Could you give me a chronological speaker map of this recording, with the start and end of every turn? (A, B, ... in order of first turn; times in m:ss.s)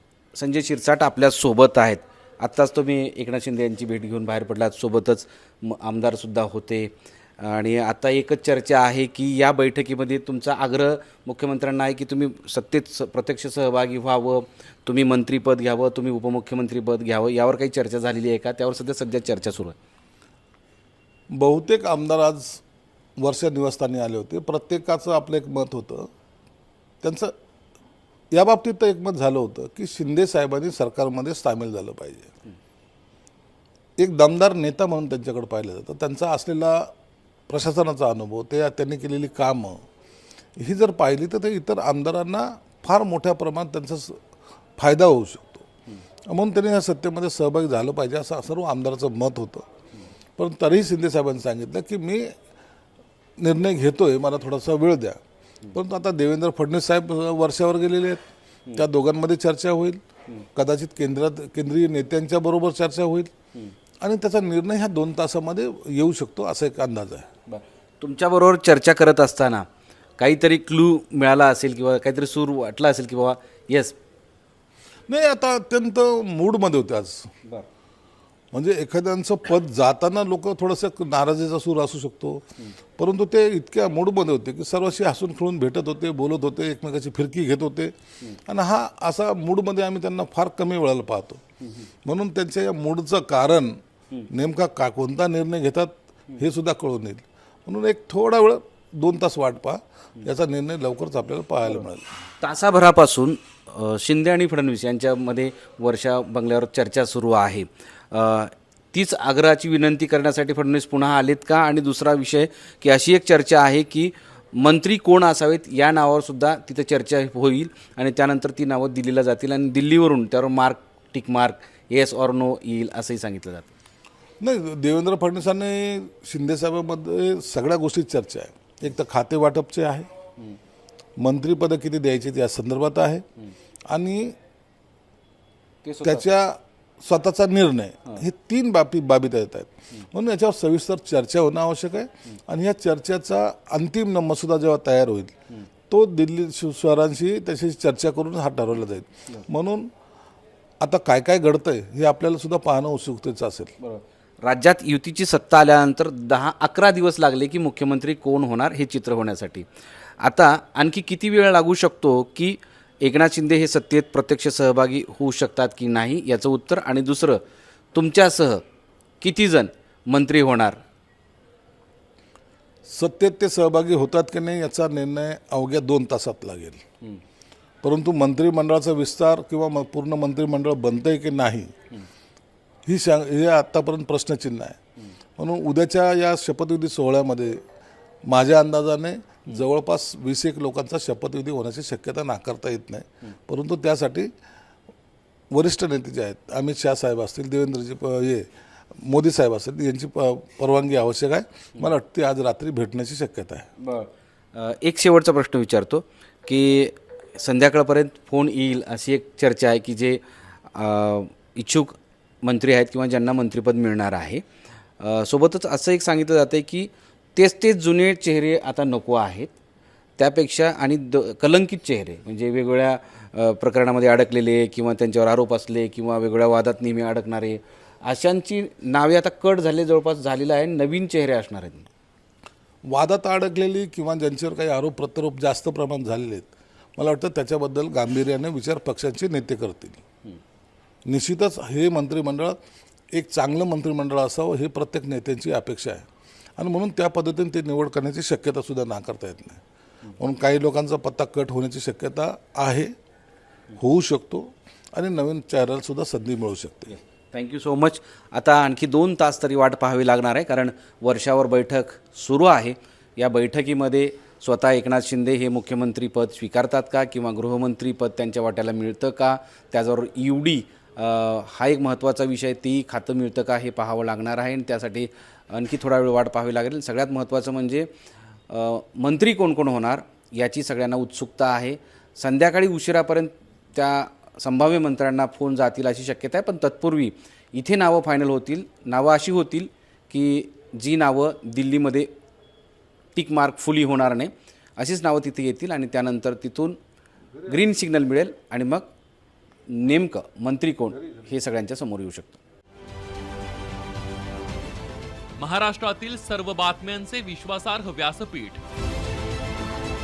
0:00.3-0:19.8 A
0:21.3-0:22.6 B
0:23.2-0:26.1 B
0:27.0-0:27.3 B
0:28.3-0:32.3 B
0:34.0-0:36.9 B
0:37.5-0:39.8 B
0:40.6-0:44.2 B
0:44.8-0:45.7 B
0:46.3-0:49.6 B
0:50.4-0:52.3 B
0:53.4-0:55.2 B
0:55.7-0:58.2 B
0:58.8-1:00.0 B
1:00.6-1:03.3 B
1:04.0-1:07.3 B
1:07.5-1:09.7 A
1:10.2-1:14.0 A
1:15.1-1:17.3 B
1:18.5-1:22.5 B
1:23.0-1:31.4 B
1:32.0-1:33.8 B
1:34.3-1:42.1 B
1:42.4-2:03.7 A
2:04.4-2:10.1 B
2:11.2-2:13.2 B
2:13.9-2:14.4 B
2:15.8-2:16.2 A
2:16.0-2:25.4 B
2:25.9-2:29.9 B
2:30.8-2:33.7 B
2:33.8-2:39.7 A
2:40.2-2:47.4 A
2:47.9-2:48.6 A
2:49.2-2:50.8 A
2:52.8-2:56.8 B
2:57.8-3:01.7 B
3:02.9-3:04.8 B
3:05.4-3:07.6 B
3:08.3-3:14.3 B
3:15.5-3:18.5 B
3:19.0-3:23.7 B
3:23.8-3:34.4 A
3:35.0-3:39.5 A
3:40.2-3:51.9 A
3:52.9-4:00.0 B
4:01.1-4:02.6 B
4:03.1-4:06.1 B
4:06.6-4:09.6 B
4:10.2-4:12.9 B
4:13.8-4:16.9 B
4:16.9-4:37.9 A
4:38.5-4:52.1 A
4:53.1-4:56.8 A
4:57.4-4:58.9 A
4:59.7-5:02.4 A
5:05.4-5:08.6 C